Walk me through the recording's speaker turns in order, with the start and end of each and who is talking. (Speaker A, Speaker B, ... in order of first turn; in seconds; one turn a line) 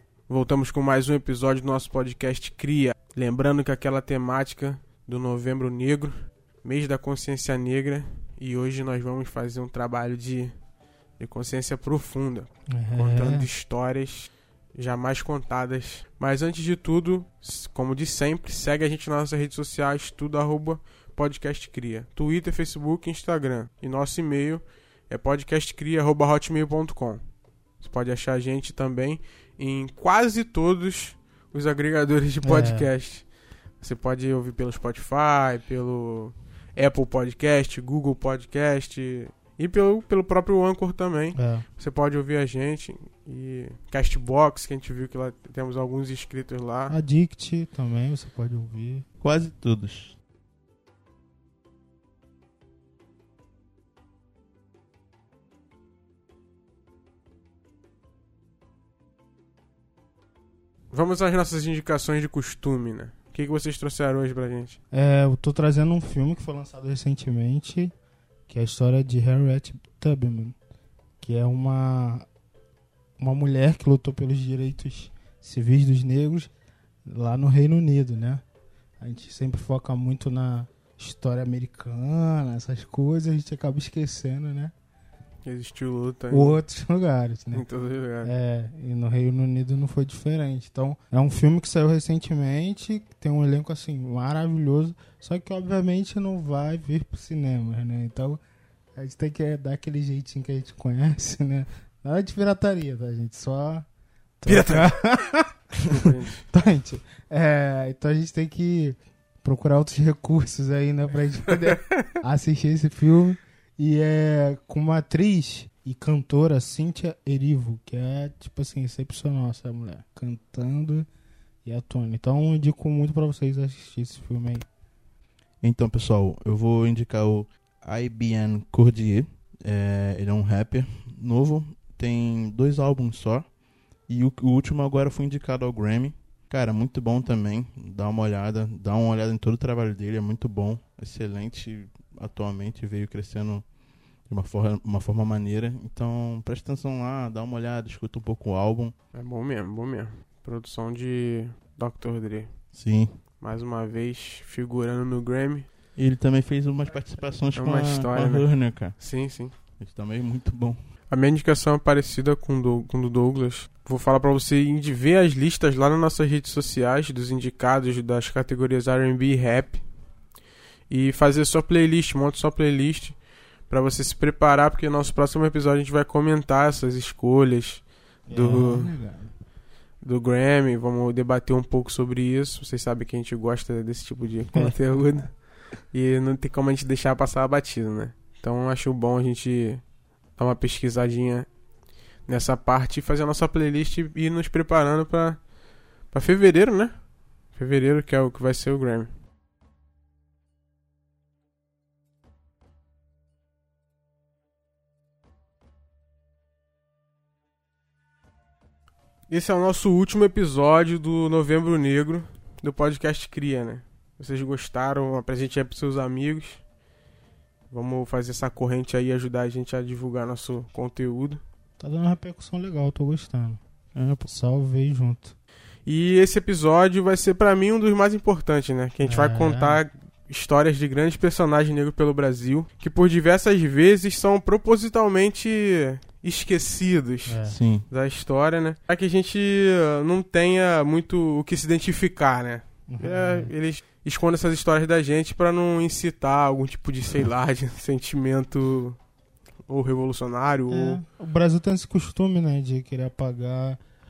Speaker A: 0.3-10.5
Speaker A: 11.2-27.2
Speaker B: 12.7-13.5
Speaker A: 27.8-33.2
Speaker B: 32.4-32.9
Speaker A: 33.8-46.9
Speaker B: 41.3-41.6
Speaker B: 46.9-49.0
Speaker C: 49.2-50.1
Speaker A: 60.9-64.8
Speaker B: 64.9-67.9
Speaker B: 68.5-70.5
Speaker B: 71.2-72.2
Speaker B: 73.2-76.5
Speaker B: 77.1-78.4
Speaker B: 79.0-84.7
Speaker A: 85.4-86.6
Speaker B: 86.3-87.6
Speaker A: 87.5-88.3
Speaker B: 88.2-98.4
Speaker B: 99.0-103.8
Speaker B: 104.4-105.5
Speaker A: 104.5-105.0
Speaker A: 105.8-106.4
Speaker B: 106.5-121.1
Speaker B: 121.6-124.7
Speaker C: 125.6-133.4
Speaker C: 134.1-143.6
Speaker C: 144.3-148.9
Speaker A: 149.1-152.5
Speaker C: 152.7-153.2
Speaker A: 153.4-155.7
Speaker C: 156.0-159.0
Speaker A: 157.6-159.5
Speaker C: 159.8-160.8
Speaker A: 161.1-169.8
Speaker A: 170.9-173.2
Speaker A: 173.7-177.8
Speaker B: 178.3-179.3
Speaker C: 178.3-178.7
Speaker A: 178.3-178.9
Speaker A: 180.0-185.3
Speaker A: 185.9-189.8
Speaker A: 190.4-191.5
Speaker A: 192.3-195.4
Speaker A: 196.1-196.9
Speaker A: 197.5-199.1
Speaker A: 209.3-216.6
Speaker A: 217.7-221.4
Speaker B: 221.8-223.6
Speaker C: 223.9-224.3
Speaker B: 224.3-225.3
Speaker A: 225.8-249.0
Speaker B: 229.0-229.8
Speaker B: 237.3-237.6
Speaker C: 237.4-237.8
Speaker B: 242.9-243.5
Speaker A: 249.7-251.0
Speaker B: 250.7-253.8